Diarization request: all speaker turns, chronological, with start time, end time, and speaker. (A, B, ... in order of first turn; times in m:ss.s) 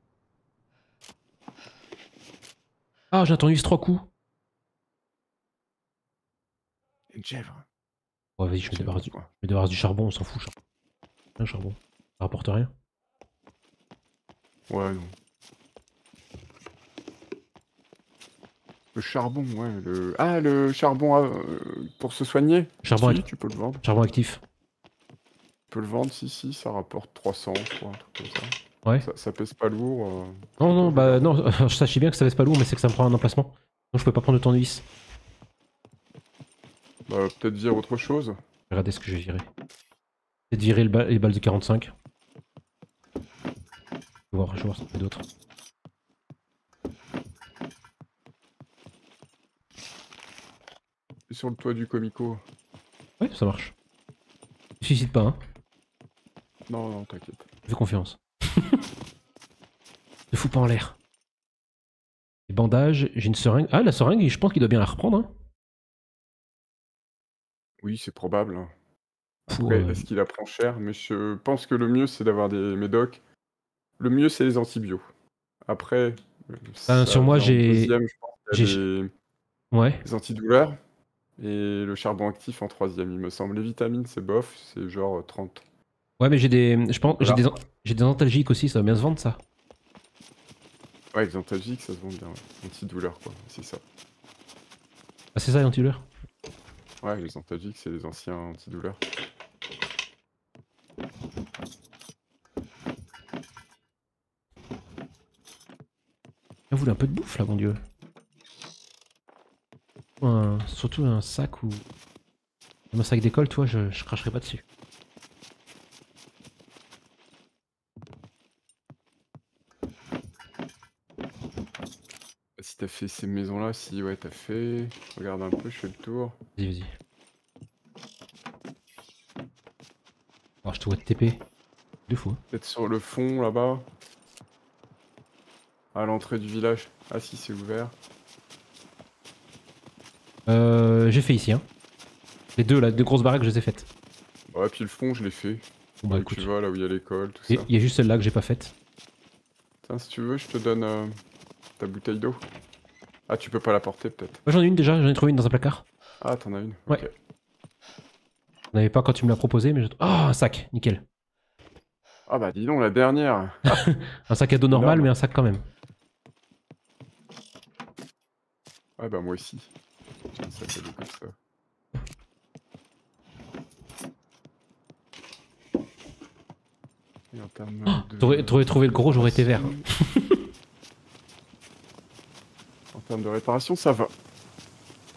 0:03.1-0:04.1 A
0:07.1-0:07.7 B
0:08.4-0:10.5 A
0:08.7-0:09.3 B
0:11.4-0:12.7 A
0:14.7-0:15.2 B
0:18.9-0:23.8 B
0:22.8-0:23.2 A
0:23.8-0:24.4 A
0:25.7-0:31.3 B
0:30.6-0:34.8 A
0:37.1-0:38.4 B
0:38.7-0:39.5 A
0:40.5-0:41.9 A
0:44.3-0:45.2 A
0:51.3-0:52.4 B
0:53.2-0:53.7 A
0:54.8-0:55.4 A
0:56.7-0:57.5 B
0:57.7-0:58.8 A
1:00.3-1:01.0 A
1:02.5-1:05.3 A
1:07.8-1:08.7 B
1:09.5-1:13.2 B
1:09.5-1:10.1 A
1:14.0-1:15.0 B
1:15.7-1:19.1 B
1:16.9-1:18.0 A
1:18.5-1:18.8 A
1:19.7-1:20.0 A
1:20.0-1:20.8 B
1:21.4-1:25.6 B
1:26.2-1:29.4 A
1:27.1-1:27.5 B
1:31.1-1:33.8 B
1:35.4-1:36.1 A
1:37.0-1:39.0 B
1:46.7-1:47.8 A
1:50.2-1:51.8 A
1:52.9-1:54.6 A
2:02.6-2:06.4 B
2:06.6-2:06.9 A
2:10.6-2:11.4 A
2:12.1-2:12.4 A
2:12.5-2:13.9 B
2:15.9-2:18.0 B
2:20.5-2:21.6 A
2:22.6-2:23.9 A
2:24.5-2:27.7 B
2:26.0-2:26.5 A
2:27.5-2:28.7 A
2:29.8-2:31.2 B
2:31.8-2:32.4 B
2:33.3-2:34.4 B
2:34.5-2:35.8 A
2:36.2-2:37.1 B
2:38.7-2:41.0 A
2:42.3-2:43.8 B
2:43.7-2:45.6 A
2:44.7-2:45.1 B
2:49.0-2:49.7 B
2:50.3-2:51.3 B
2:57.3-2:59.9 B
2:57.9-3:00.4 A
3:02.9-3:04.1 B